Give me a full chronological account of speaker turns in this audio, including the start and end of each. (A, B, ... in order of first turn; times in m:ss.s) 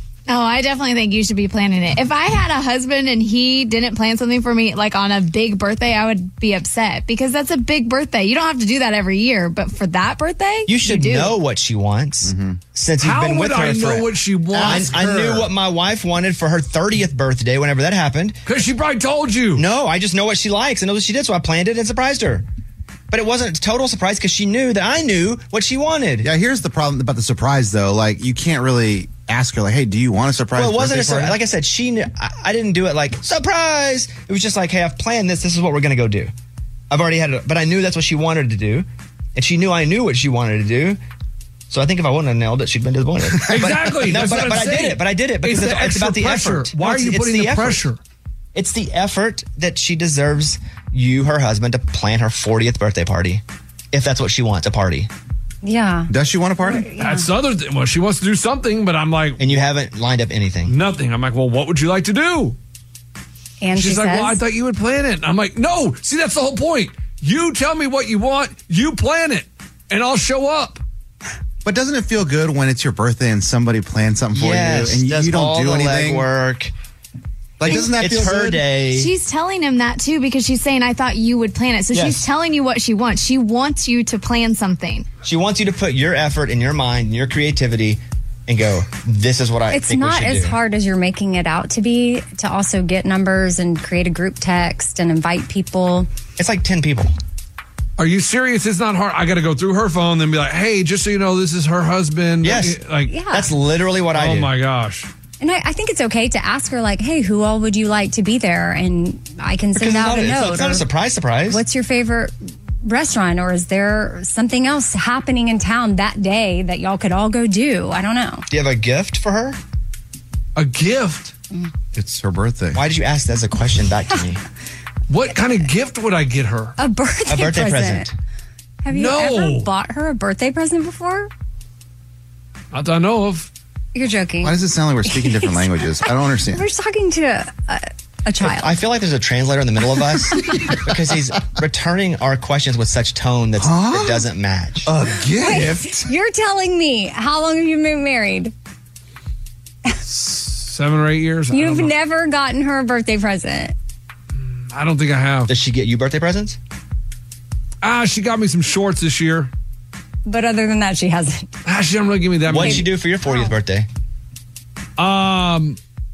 0:00.3-0:11.4 A
0:10.7-0:18.4 B
0:12.2-0:12.6 C
0:13.0-0:15.2 D
0:14.5-0:15.4 C
0:18.4-0:19.6 D
0:19.6-0:22.4 B
0:23.1-0:26.3 B
0:26.2-0:31.4 C
0:30.5-0:36.3 B
0:36.9-0:41.0 B
0:41.7-0:47.8 B
0:43.4-0:48.0 D
0:48.5-0:53.4 B
0:53.9-0:55.1 B
0:55.6-0:56.1 E
0:56.1-0:56.9 C
0:56.6-0:57.3 E
0:57.0-0:59.6 D
0:59.4-1:00.7 B
1:00.6-1:02.6 D
1:03.6-1:04.4 E
1:03.7-1:10.8 D
1:11.6-1:16.3 C
1:14.3-1:16.7 B
1:17.6-1:18.7 C
1:17.6-1:19.1 B
1:18.9-1:25.1 A
1:21.9-1:22.2 B
1:25.2-1:30.6 B
1:29.7-1:36.1 E
1:36.4-1:37.1 B
1:38.0-1:43.1 D
1:42.4-1:42.8 B
1:43.1-1:43.5 E
1:43.3-1:44.5 B
1:44.1-1:45.1 D
1:45.4-1:50.8 E
1:49.8-1:51.6 B
1:51.5-1:58.4 E
1:58.5-1:59.6 B
2:00.6-2:01.3 D
2:01.9-2:02.8 C
2:02.7-2:04.4 B
2:05.1-2:06.7 D
2:06.8-2:08.1 E
2:07.3-2:08.1 B
2:08.8-2:11.3 E
2:08.9-2:09.7 D
2:12.7-2:13.5 D
2:13.9-2:18.7 E
2:14.4-2:16.6 C
2:18.4-2:24.9 B
2:20.5-2:20.7 C
2:23.6-2:24.3 C
2:24.8-2:26.1 C
2:25.4-2:28.5 E
2:30.0-2:31.9 D
2:31.5-2:33.7 E
2:34.3-2:35.5 D
2:35.5-2:36.6 B
2:37.8-2:39.5 D
2:40.3-2:41.5 E
2:41.6-2:42.9 D
2:42.5-2:43.9 B
2:42.6-2:43.5 E
2:45.0-2:45.8 D